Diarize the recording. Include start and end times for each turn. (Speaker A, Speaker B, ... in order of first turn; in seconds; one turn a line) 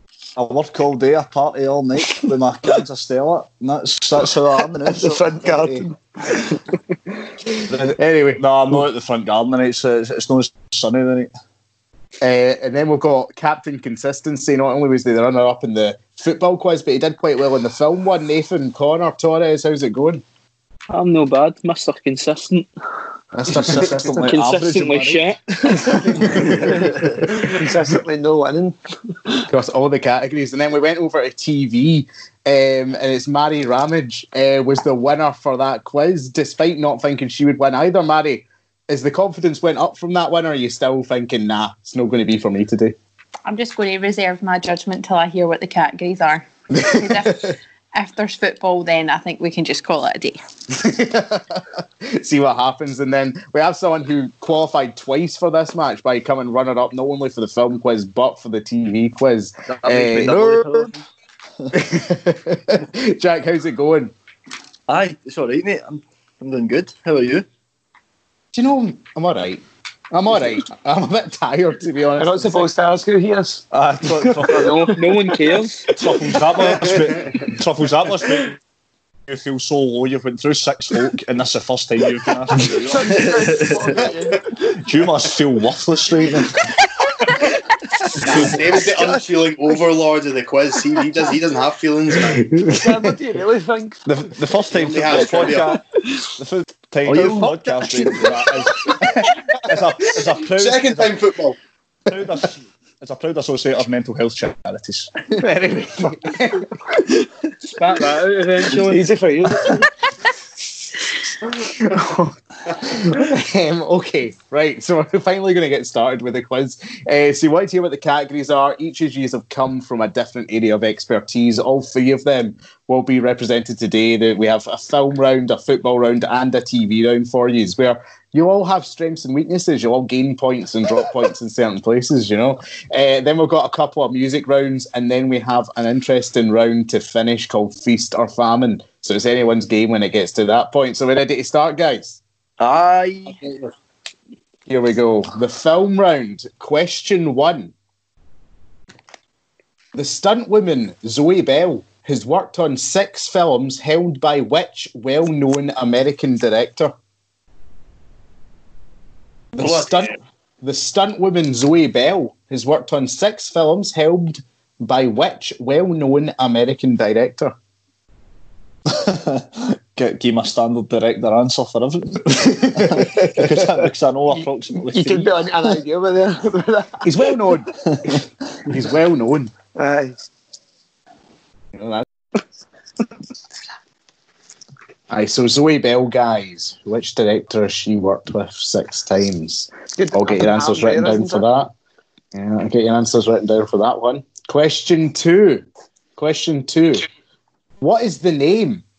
Speaker A: 0.3-5.8
Speaker B: 4.8-6.5
Speaker A: 7.7-11.3
Speaker C: 8.0-8.8
Speaker C: 12.2-20.2
Speaker D: 20.9-22.7
Speaker C: 23.3-24.3
Speaker A: 23.5-26.7
Speaker D: 24.2-25.9
Speaker C: 26.2-26.5
Speaker B: 27.3-28.8
Speaker C: 29.5-43.0
Speaker E: 43.5-50.4
Speaker C: 46.8-47.5
Speaker C: 50.7-60.9
Speaker F: 59.7-61.0
Speaker C: 61.7-64.1
Speaker F: 64.9-67.4
Speaker C: 68.5-72.7
Speaker B: 72.2-75.2
Speaker A: 73.7-74.9
Speaker D: 74.6-75.9
Speaker A: 75.9-78.5
Speaker A: 79.3-83.3
Speaker B: 82.6-84.6
Speaker F: 83.1-83.7
Speaker A: 84.8-86.7
Speaker G: 88.2-92.5
Speaker C: 88.2-88.5
Speaker C: 92.3-93.1
Speaker B: 92.7-94.0
Speaker A: 94.0-101.2
Speaker G: 94.7-95.8
Speaker B: 95.1-95.6
Speaker C: 97.1-97.5
Speaker G: 100.5-101.6
Speaker A: 102.1-105.2
Speaker C: 105.3-106.7
Speaker D: 107.7-109.1
Speaker B: 108.7-109.9
Speaker C: 111.4-142.2
Speaker F: 142.6-143.6
Speaker C: 144.7-147.7
Speaker C: 149.9-156.9
Speaker C: 159.5-167.5
Speaker G: 159.6-160.1
Speaker A: 168.9-175.4
Speaker C: 172.7-173.5
Speaker B: 174.3-177.3
Speaker C: 177.0-179.5
Speaker B: 179.8-180.1
Speaker C: 181.7-182.1
Speaker C: 185.1-191.7
Speaker B: 189.9-191.4
Speaker C: 192.3-195.7
Speaker C: 196.2-197.1
Speaker C: 197.8-198.8